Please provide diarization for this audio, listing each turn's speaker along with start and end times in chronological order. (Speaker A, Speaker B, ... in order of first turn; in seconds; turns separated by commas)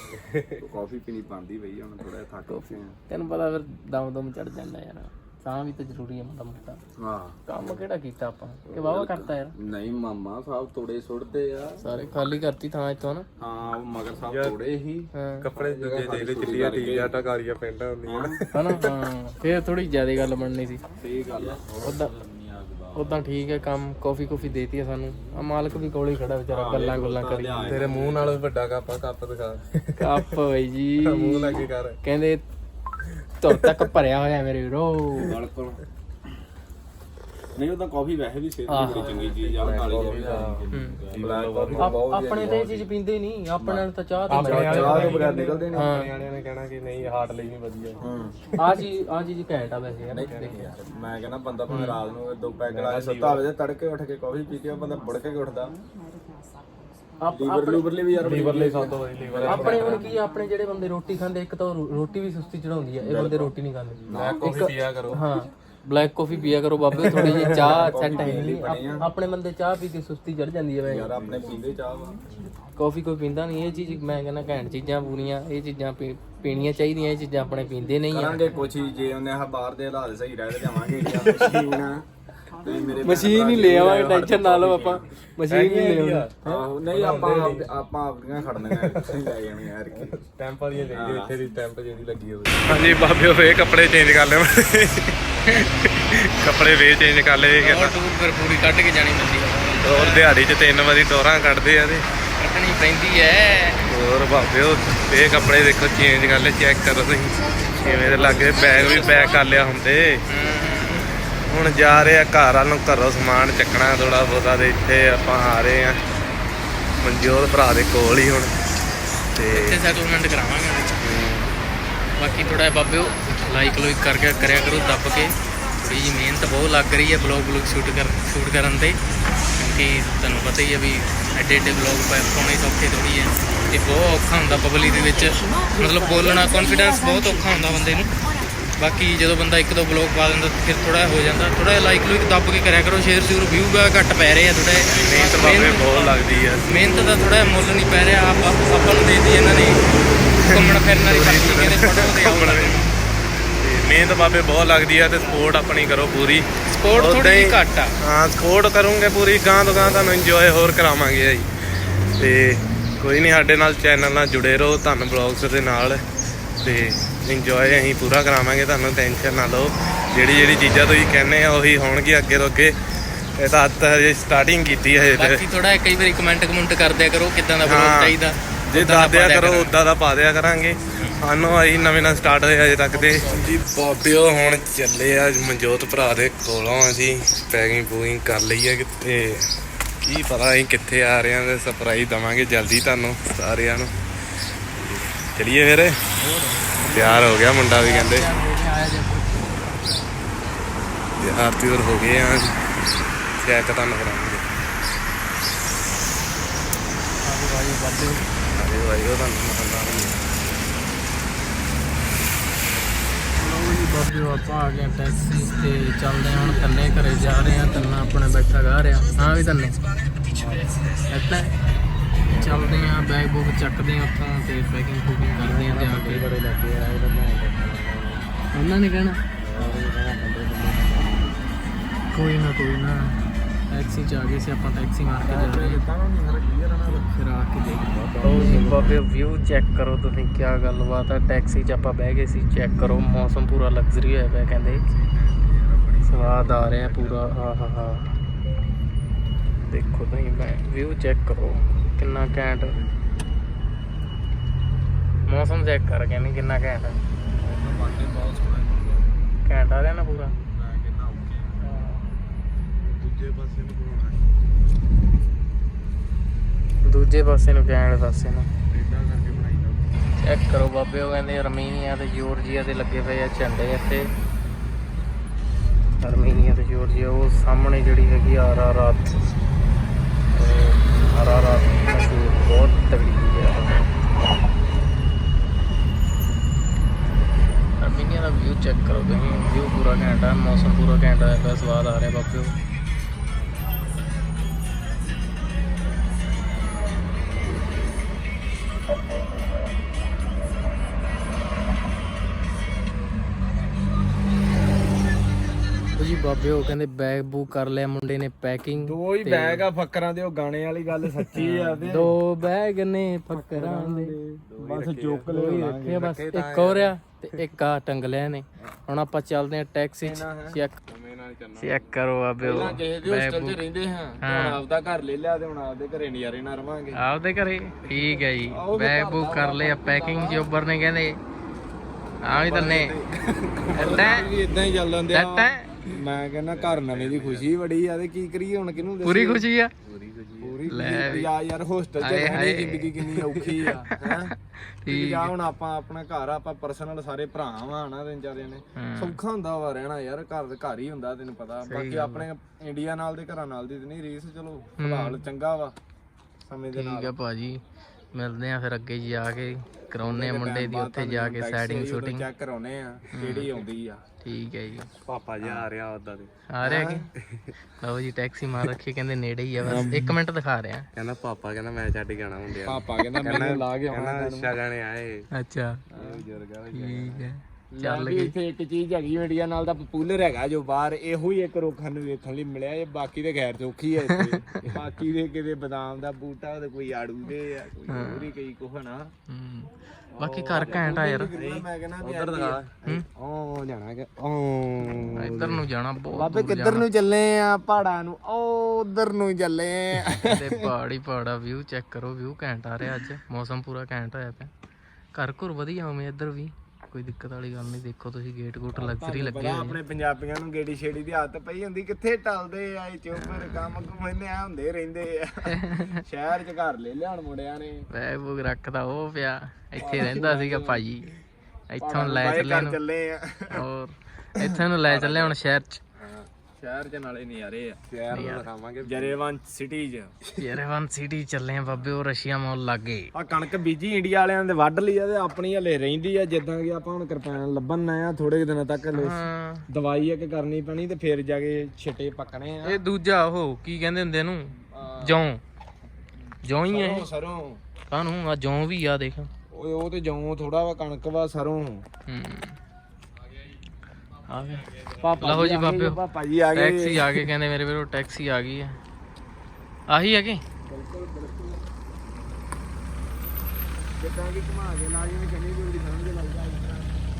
Speaker A: 0.1-0.6, Speaker B: 0.6-2.9, Speaker C: 2.5-6.8, Speaker B: 7.0-7.8, Speaker C: 7.5-9.5, Speaker B: 8.7-11.8, Speaker C: 11.8-13.2, Speaker B: 13.4-17.1, Speaker A: 14.2-14.6, Speaker C: 15.1-15.4, Speaker A: 15.4-18.9, Speaker B: 18.1-18.4, Speaker C: 18.5-20.8, Speaker B: 21.0-23.2, Speaker C: 21.8-22.1, Speaker C: 22.9-27.8, Speaker B: 26.5-28.4, Speaker A: 27.6-30.2, Speaker C: 30.0-32.4, Speaker A: 31.0-32.0, Speaker C: 33.4-35.3, Speaker A: 33.5-33.8, Speaker B: 35.2-35.8, Speaker B: 37.5-42.8, Speaker C: 38.7-39.4, Speaker A: 38.8-42.1, Speaker C: 40.7-41.0, Speaker C: 41.8-46.1, Speaker B: 43.6-45.9, Speaker A: 44.3-48.0, Speaker B: 48.0-48.3, Speaker C: 48.6-50.7, Speaker B: 50.1-55.7, Speaker C: 51.7-52.0, Speaker A: 52.7-53.4, Speaker C: 57.2-58.0, Speaker B: 57.3-60.2, Speaker A: 58.2-60.1, Speaker C: 59.4-71.2, Speaker B: 63.0-63.5, Speaker B: 64.0-64.4, Speaker A: 64.1-65.2, Speaker B: 67.0-69.0, Speaker A: 67.1-67.6, Speaker B: 70.8-72.2, Speaker C: 72.8-78.5, Speaker B: 78.1-82.0, Speaker C: 80.7-81.7, Speaker B: 82.6-85.0, Speaker C: 83.0-86.3, Speaker A: 85.5-87.7, Speaker B: 86.4-90.2, Speaker A: 88.8-89.3, Speaker A: 89.9-98.0, Speaker B: 90.9-91.3, Speaker C: 97.6-100.3, Speaker A: 99.8-102.0, Speaker C: 102.4-103.9, Speaker A: 103.9-110.2, Speaker C: 107.8-109.2, Speaker C: 110.3-111.2, Speaker A: 111.5-116.0, Speaker A: 117.0-118.5, Speaker A: 119.3-119.8, Speaker C: 119.5-121.1, Speaker A: 121.0-121.5, Speaker C: 122.2-129.0, Speaker C: 129.6-138.1, Speaker C: 138.8-149.8, Speaker A: 144.9-146.8, Speaker A: 150.3-152.9, Speaker C: 150.4-152.9, Speaker A: 153.6-161.5, Speaker C: 156.7-157.9, Speaker A: 162.2-166.0, Speaker A: 166.6-175.4, Speaker C: 175.1-179.7, Speaker A: 177.6-178.2, Speaker A: 178.7-193.9, Speaker C: 182.9-183.6, Speaker A: 194.5-196.0, Speaker C: 196.2-200.2, Speaker A: 196.9-198.3, Speaker A: 201.2-202.8, Speaker A: 203.4-204.4, Speaker C: 207.2-208.3, Speaker A: 208.5-210.2, Speaker C: 213.3-219.8, Speaker B: 220.3-220.6, Speaker C: 221.1-221.5, Speaker C: 222.3-226.3, Speaker A: 225.4-228.3, Speaker C: 228.5-229.2, Speaker A: 229.4-231.6, Speaker B: 229.5-229.8, Speaker C: 232.1-233.2, Speaker C: 233.7-235.8, Speaker B: 235.2-237.1, Speaker C: 236.9-244.8, Speaker B: 237.9-238.9, Speaker A: 238.1-238.9, Speaker B: 244.8-247.3, Speaker C: 246.1-248.1, Speaker C: 249.7-252.7, Speaker B: 252.6-253.0, Speaker C: 255.2-257.0, Speaker B: 257.4-259.1, Speaker C: 259.4-260.3, Speaker B: 260.5-261.7, Speaker C: 261.6-262.1, Speaker A: 262.9-264.2, Speaker C: 266.8-268.5, Speaker A: 268.7-269.8, Speaker C: 270.2-274.1, Speaker C: 276.0-279.2, Speaker C: 280.3-283.9, Speaker C: 287.8-292.5, Speaker C: 305.9-309.7, Speaker B: 308.8-312.1, Speaker C: 311.3-314.1, Speaker B: 313.3-316.2, Speaker A: 314.5-315.3, Speaker C: 315.3-320.7, Speaker A: 316.1-316.9, Speaker B: 320.0-320.6, Speaker A: 320.9-321.9, Speaker C: 321.6-323.6, Speaker B: 322.4-327.0, Speaker C: 324.2-324.6, Speaker C: 326.9-331.2, Speaker B: 327.9-330.5, Speaker C: 332.3-332.9, Speaker B: 332.3-339.4, Speaker C: 333.7-334.3, Speaker C: 335.1-335.7, Speaker A: 336.5-337.5, Speaker C: 339.0-339.7, Speaker A: 339.9-340.6, Speaker B: 340.4-344.3, Speaker C: 340.7-341.3, Speaker C: 342.0-344.3, Speaker C: 344.8-345.3, Speaker B: 344.9-355.7, Speaker C: 348.8-349.2, Speaker C: 351.7-352.2, Speaker C: 354.8-355.2, Speaker B: 356.5-357.1, Speaker C: 356.7-357.6, Speaker C: 358.1-362.3, Speaker B: 360.0-364.0, Speaker C: 363.1-363.5, Speaker C: 364.2-364.9, Speaker A: 365.1-366.3, Speaker B: 365.4-365.7, Speaker C: 366.5-367.1, Speaker B: 366.6-367.0, Speaker C: 367.8-370.9, Speaker B: 369.6-370.1, Speaker A: 370.9-375.3, Speaker B: 372.6-374.5, Speaker C: 375.3-375.8, Speaker B: 375.9-376.3, Speaker A: 375.9-377.2, Speaker C: 376.7-378.3, Speaker B: 376.9-377.2, Speaker B: 377.7-389.1, Speaker C: 384.1-384.4, Speaker C: 387.9-388.3, Speaker C: 389.3-391.3, Speaker B: 390.1-393.0, Speaker A: 391.3-395.6, Speaker C: 395.1-396.9, Speaker B: 396.1-400.7, Speaker C: 400.2-404.5, Speaker C: 405.1-409.8, Speaker B: 408.7-417.9, Speaker C: 413.1-413.7, Speaker C: 415.5-416.0, Speaker C: 417.9-421.1, Speaker B: 419.8-420.8, Speaker C: 421.7-422.8, Speaker B: 421.8-423.6, Speaker C: 423.5-425.8, Speaker B: 424.4-425.3, Speaker B: 426.0-428.3, Speaker A: 427.9-429.2, Speaker C: 428.1-428.5, Speaker B: 428.8-430.1, Speaker C: 430.4-433.1, Speaker B: 433.1-442.8, Speaker C: 438.9-439.6, Speaker C: 442.6-445.4, Speaker B: 444.6-445.2, Speaker C: 446.4-447.1, Speaker B: 446.7-447.6, Speaker C: 447.9-449.3, Speaker B: 449.5-451.8, Speaker C: 452.1-452.6, Speaker C: 454.3-456.0, Speaker B: 455.0-457.2, Speaker C: 456.5-458.8, Speaker C: 459.9-460.4, Speaker B: 460.7-461.6, Speaker B: 464.0-466.9